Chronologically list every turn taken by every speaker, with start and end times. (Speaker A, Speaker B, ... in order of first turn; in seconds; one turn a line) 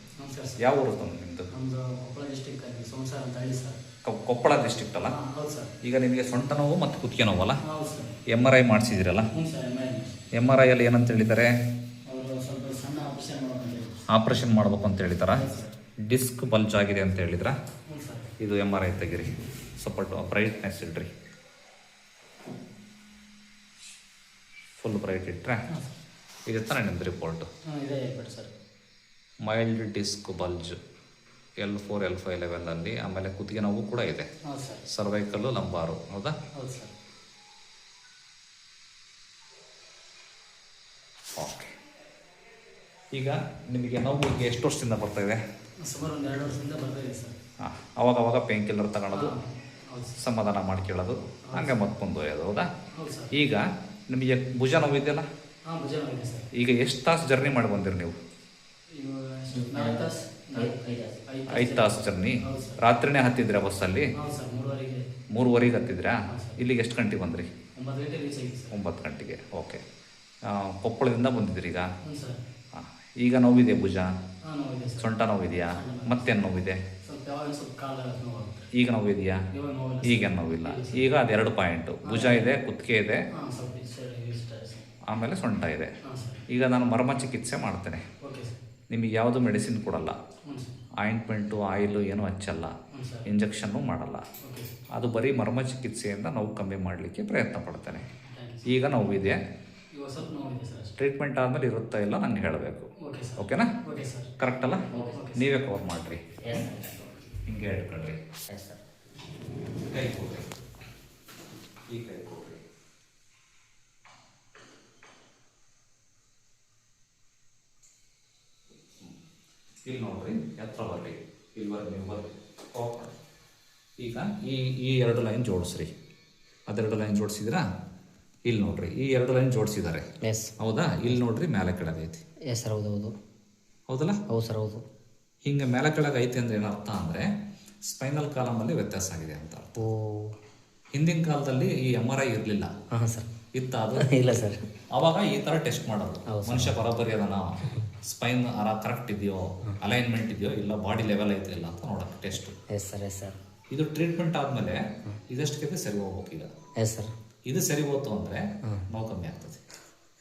Speaker A: 0.2-0.8
Speaker B: 0.6-1.5
Speaker A: 1.5-3.8
Speaker B: 4.0-5.2
Speaker A: 4.9-5.7
Speaker B: 5.8-7.6
Speaker A: 7.6-8.2
Speaker B: 8.3-9.3
Speaker A: 9.3-10.2
Speaker B: 10.3-11.5
Speaker A: 12.1-14.0
Speaker B: 14.1-15.4
Speaker A: 15.3-15.7
Speaker B: 16.1-17.5
Speaker A: 17.9-18.3
Speaker B: 18.4-21.1
Speaker B: 24.8-25.6
Speaker B: 26.5-27.5
Speaker A: 27.7-28.5
Speaker B: 29.4-30.8
Speaker B: 31.6-34.3
Speaker A: 34.5-34.8
Speaker B: 34.9-36.4
Speaker A: 36.5-36.9
Speaker B: 41.4-41.8
Speaker B: 43.1-45.4
Speaker A: 45.8-47.4
Speaker B: 47.6-49.4
Speaker A: 49.1-50.2
Speaker B: 50.2-52.7
Speaker A: 51.5-51.8
Speaker A: 52.9-53.3
Speaker B: 53.3-55.3
Speaker A: 55.7-56.5
Speaker B: 56.5-58.2
Speaker A: 58.9-60.7
Speaker C: 59.5-61.2
Speaker A: 61.3-62.9
Speaker B: 61.5-64.1
Speaker A: 64.1-65.1
Speaker B: 65.3-67.5
Speaker A: 66.3-66.6
Speaker A: 67.8-68.8
Speaker B: 68.7-69.8
Speaker B: 70.5-71.9
Speaker A: 72.0-72.4
Speaker B: 72.7-74.1
Speaker A: 74.5-75.1
Speaker B: 75.0-76.8
Speaker A: 75.7-76.4
Speaker A: 77.0-78.7
Speaker B: 78.7-79.4
Speaker A: 79.5-81.1
Speaker B: 80.0-83.2
Speaker A: 82.0-82.5
Speaker A: 83.3-84.9
Speaker B: 85.1-85.9
Speaker A: 86.0-86.4
Speaker B: 86.5-88.0
Speaker A: 88.2-88.6
Speaker B: 88.9-90.2
Speaker A: 90.5-90.8
Speaker B: 91.0-94.2
Speaker A: 92.9-93.3
Speaker A: 94.4-94.8
Speaker B: 94.9-98.1
Speaker A: 98.2-98.7
Speaker B: 98.7-99.4
Speaker A: 99.9-101.0
Speaker B: 101.0-103.8
Speaker A: 103.0-104.3
Speaker B: 104.4-106.3
Speaker C: 104.9-105.2
Speaker A: 105.1-105.5
Speaker C: 106.4-107.1
Speaker B: 107.4-108.2
Speaker C: 108.5-108.8
Speaker B: 109.8-110.5
Speaker B: 111.9-112.6
Speaker B: 119.9-123.1
Speaker B: 124.0-125.9
Speaker B: 126.7-127.6
Speaker B: 128.5-130.1
Speaker C: 130.2-130.5
Speaker B: 130.6-132.2
Speaker C: 132.5-133.1
Speaker B: 133.9-134.2
Speaker C: 134.3-134.8
Speaker B: 135.4-137.3
Speaker B: 137.9-139.8
Speaker C: 139.8-140.4
Speaker B: 140.9-142.7
Speaker C: 142.9-143.3
Speaker B: 143.6-144.1
Speaker C: 143.9-144.7
Speaker B: 144.9-152.6
Speaker C: 146.3-146.8
Speaker C: 152.7-153.4
Speaker B: 153.7-156.5
Speaker C: 156.8-157.1
Speaker B: 157.5-159.6